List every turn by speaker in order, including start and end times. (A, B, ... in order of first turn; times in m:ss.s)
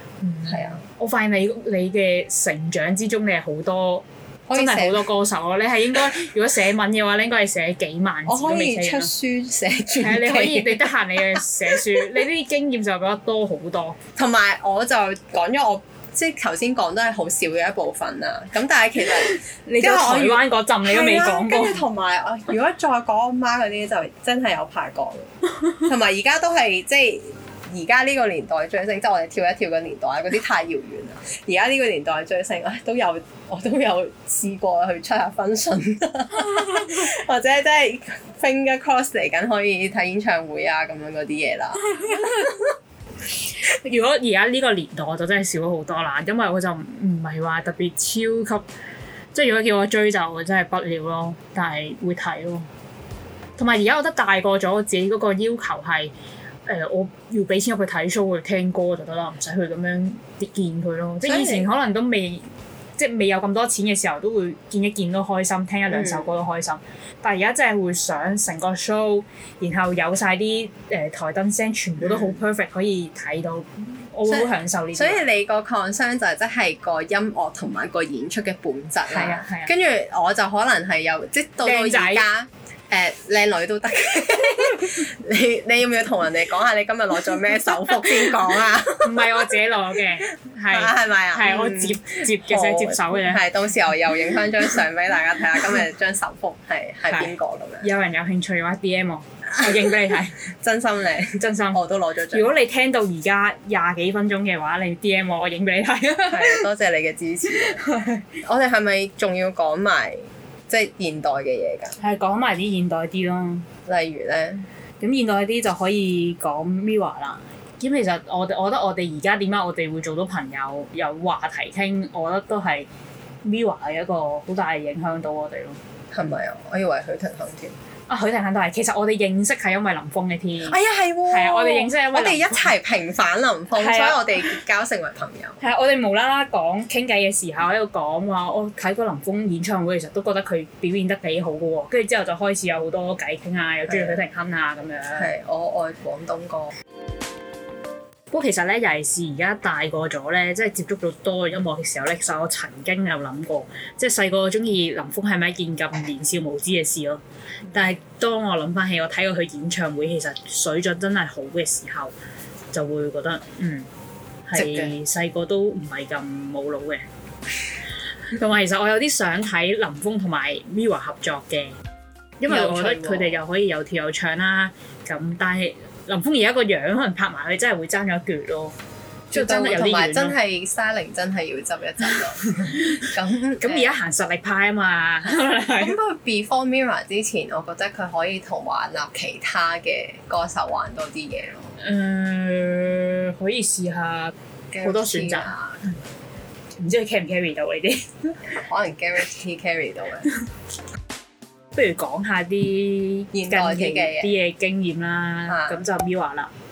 0:00.2-0:09.1 A
0:00.5-0:00.8 B
0:04.5-0:05.1 B
0:08.3-0:12.2 B
0:10.0-0:14.0 A
0:14.2-0:42.6 B
0:19.2-0:21.8 A
0:36.4-0:36.9 A
0:41.9-0:42.5 A
0:43.7-0:48.6 A
0:49.3-0:52.7 A
0:53.6-0:56.1 A
0:56.7-1:02.5 A
1:01.2-1:01.7 B
1:03.0-1:15.2 A
1:05.9-1:06.3 B
1:12.0-1:12.4 B
1:14.3-1:29.5 B
1:19.1-1:19.7 A
1:21.6-1:22.2 A
1:29.0-1:33.4 A
1:30.7-1:37.9 B
1:37.1-1:40.5 A
1:40.6-1:42.5 B
1:41.4-1:41.8 A
1:42.3-1:46.6 A
1:46.3-1:47.8 B
1:47.5-1:48.3 A
1:48.4-1:52.0 B
1:52.0-1:53.7 A
1:53.9-1:54.6 B
1:55.0-2:02.9 A
2:03.4-2:05.8 A
2:06.1-2:07.8 B
2:08.1-2:10.8 A
2:10.7-2:15.6 B
2:11.3-2:12.7 A
2:13.8-2:14.6 A
2:15.6-2:25.3 A
2:23.9-2:24.2 B
2:25.2-2:26.8 B
2:28.3-2:42.1 A
2:42.7-2:43.9 A
2:44.5-2:47.0 A
2:44.6-2:44.9 B
2:48.3-2:51.8 A
2:52.4-2:58.7 A
2:52.5-2:53.4 B
2:59.3-3:03.9 B
2:59.3-3:00.4 A
3:02.6-3:06.0 A
3:05.8-3:11.8 B
3:11.8-3:15.5 A
3:14.7-3:15.8 B
3:16.8-3:18.4 A
3:18.6-3:20.3 B
3:21.8-3:26.5 A
3:23.3-3:24.3 B
3:25.5-3:25.8 B